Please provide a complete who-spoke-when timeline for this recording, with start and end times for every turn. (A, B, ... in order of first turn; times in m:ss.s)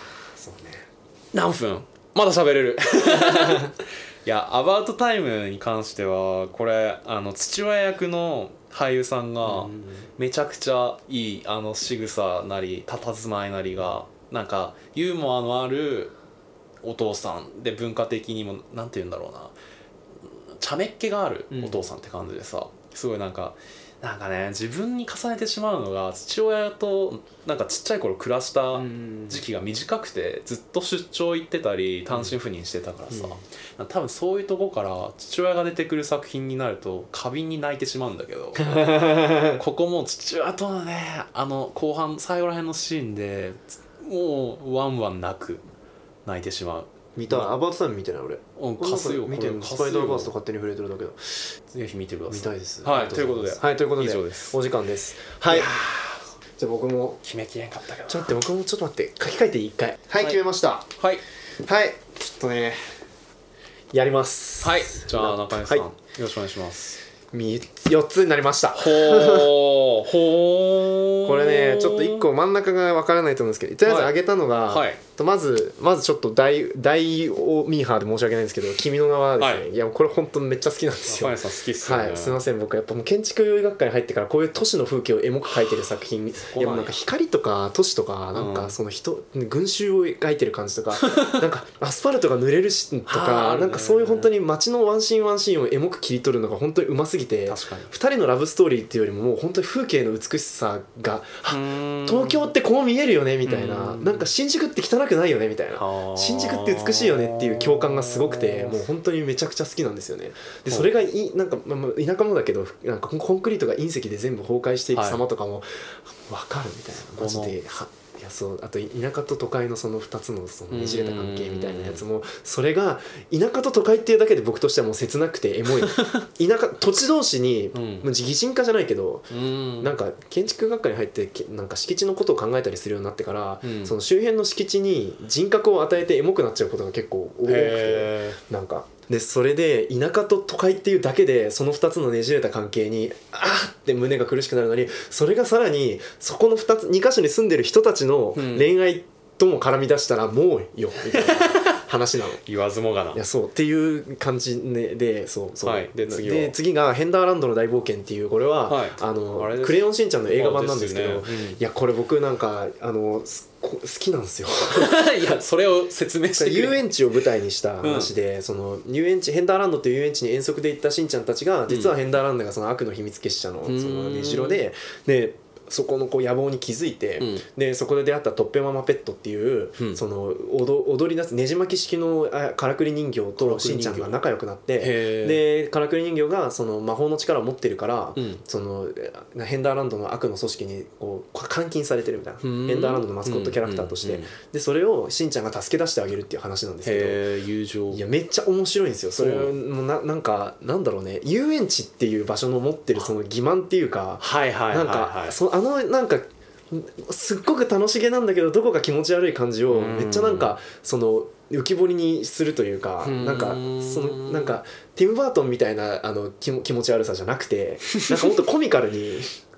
0:00.4-0:00.9 A
0:01.3-0:16.1 B
0:03.0-0:03.7 A
0:09.4-0:10.1 A
0:16.8-0:19.5 B
0:20.6-0:45.6 B
0:21.5-0:21.9 A
0:28.8-0:29.4 A
0:33.1-0:33.4 A
0:38.6-0:39.6 A
0:46.3-0:47.5 B
0:47.2-0:51.5 A
0:48.6-0:50.3 B
0:51.7-0:54.6 B
0:52.3-0:55.8 A
0:55.5-0:56.3 B
0:56.6-0:57.2 A
0:57.2-0:58.4 B
0:58.1-1:00.9 A
1:01.6-1:02.8 A
1:03.9-1:05.8 A
1:04.6-1:07.0 B
1:07.3-1:09.6 A
1:08.8-1:12.2 B
1:11.2-2:32.4 A
1:13.8-1:14.1 B
1:14.7-1:15.0 B
1:19.4-1:19.7 B
1:21.1-1:22.4 B
1:26.5-1:27.0 B
1:28.3-1:28.8 B
1:31.0-1:31.4 B
1:33.1-1:34.3 B
1:37.5-1:37.9 B
1:41.5-1:42.5 B
1:43.4-1:44.3 B
1:45.7-1:48.8 B
1:54.9-1:55.2 B
1:57.2-1:57.6 B
2:00.7-2:02.0 B
2:05.8-2:06.2 B
2:07.7-2:08.1 B
2:09.3-2:10.0 B
2:13.6-2:14.0 B
2:17.4-2:18.4 B
2:28.4-2:28.7 B
2:31.1-2:31.8 B
2:32.4-2:33.2 B
2:33.1-2:45.1 A
2:35.6-2:36.6 B
2:38.7-2:41.6 B
2:44.7-2:46.9 B
2:46.3-3:17.2 A
2:47.8-2:48.1 B
2:51.7-2:51.9 B
2:53.7-2:54.6 B
2:57.2-2:57.4 B
3:03.4-3:04.2 B
3:04.8-3:05.4 B
3:08.2-3:08.4 B
3:12.4-3:14.3 B
3:16.8-3:18.0 B
3:17.9-3:39.4 A
3:19.2-3:19.6 B
3:24.2-3:25.4 B
3:29.7-3:30.6 B
3:33.0-3:34.6 B
3:37.9-3:38.2 B